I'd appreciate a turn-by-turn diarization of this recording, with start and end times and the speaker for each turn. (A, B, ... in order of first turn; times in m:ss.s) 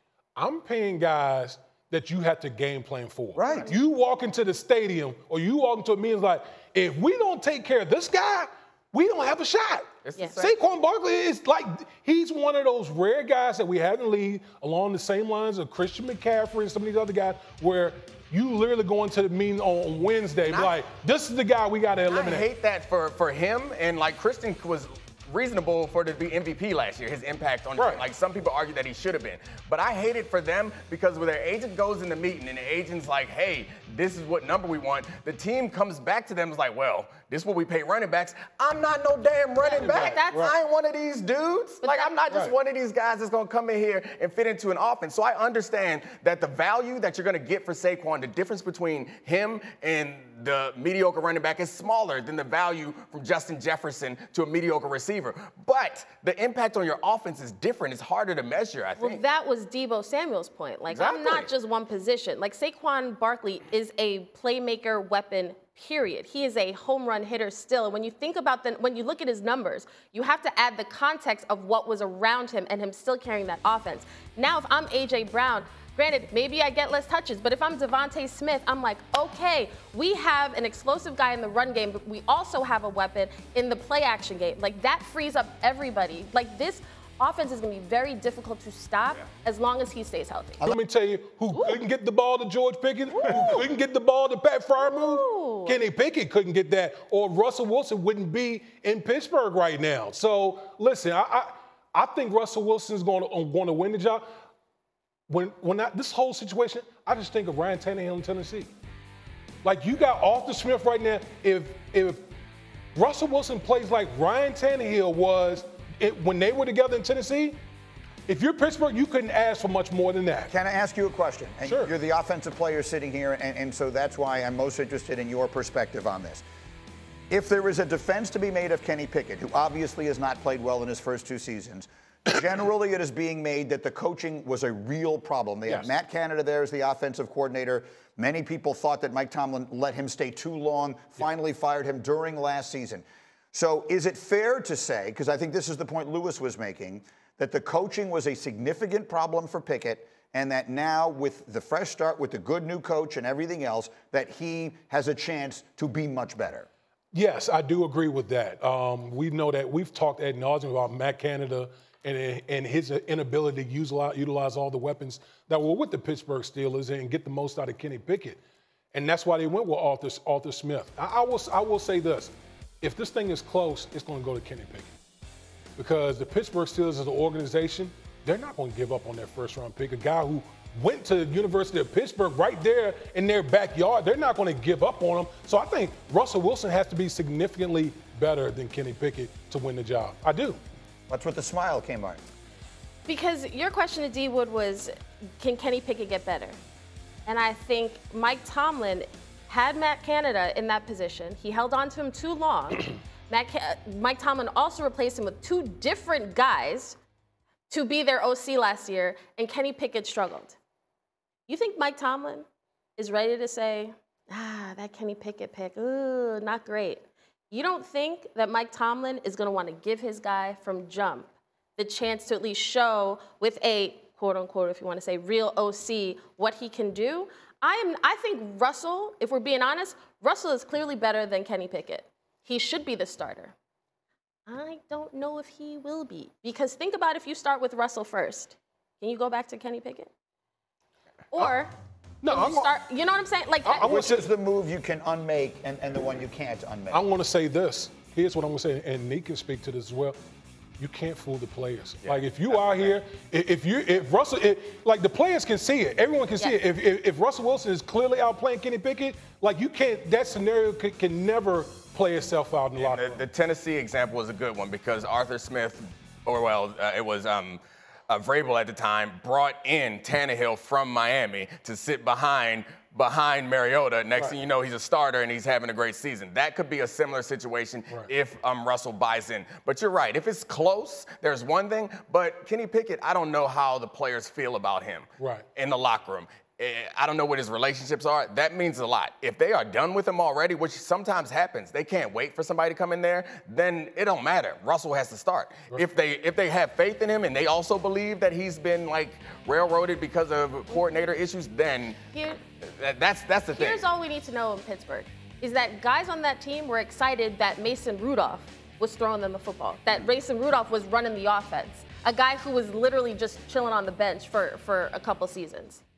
0:00.4-0:22.5 A
0:03.3-0:03.7 B
0:10.0-0:10.5 C
0:20.4-0:20.8 C
0:22.1-0:59.2 C
0:27.7-0:28.0 A
0:39.6-0:40.5 D
0:39.8-0:40.5 A
0:41.8-0:42.2 D
0:59.0-1:30.6 D
1:00.9-1:01.5 C
1:30.6-1:44.2 A
1:31.5-1:31.8 D
1:33.1-1:33.7 D
1:34.8-1:35.8 D
1:45.3-1:48.7 A
1:49.6-1:52.3 A
1:52.9-1:57.6 A
1:58.3-2:00.5 A
2:00.5-2:06.4 B
2:01.6-2:01.9 A
2:07.3-2:36.7 B
2:37.1-2:48.4 A
2:48.9-2:54.9 A
2:55.8-3:10.6 A
3:11.1-3:12.2 B
3:13.0-3:16.5 D
3:17.2-3:27.0 D
3:27.7-3:30.6 D
3:31.5-3:32.4 D
3:33.0-3:53.5 D
3:54.5-4:00.1 D
4:01.3-4:01.7 D
4:02.2-4:02.7 A
4:02.2-4:04.0 D
4:03.7-4:04.3 A
4:03.7-4:07.0 B
4:06.9-4:10.2 A
4:10.8-4:23.2 A
4:12.0-4:13.0 C
4:16.4-4:16.6 D
4:22.8-5:02.0 C
4:45.2-4:45.4 A
5:00.7-5:01.0 D
5:02.1-5:02.4 D
5:02.6-5:03.8 C
5:03.5-5:15.8 D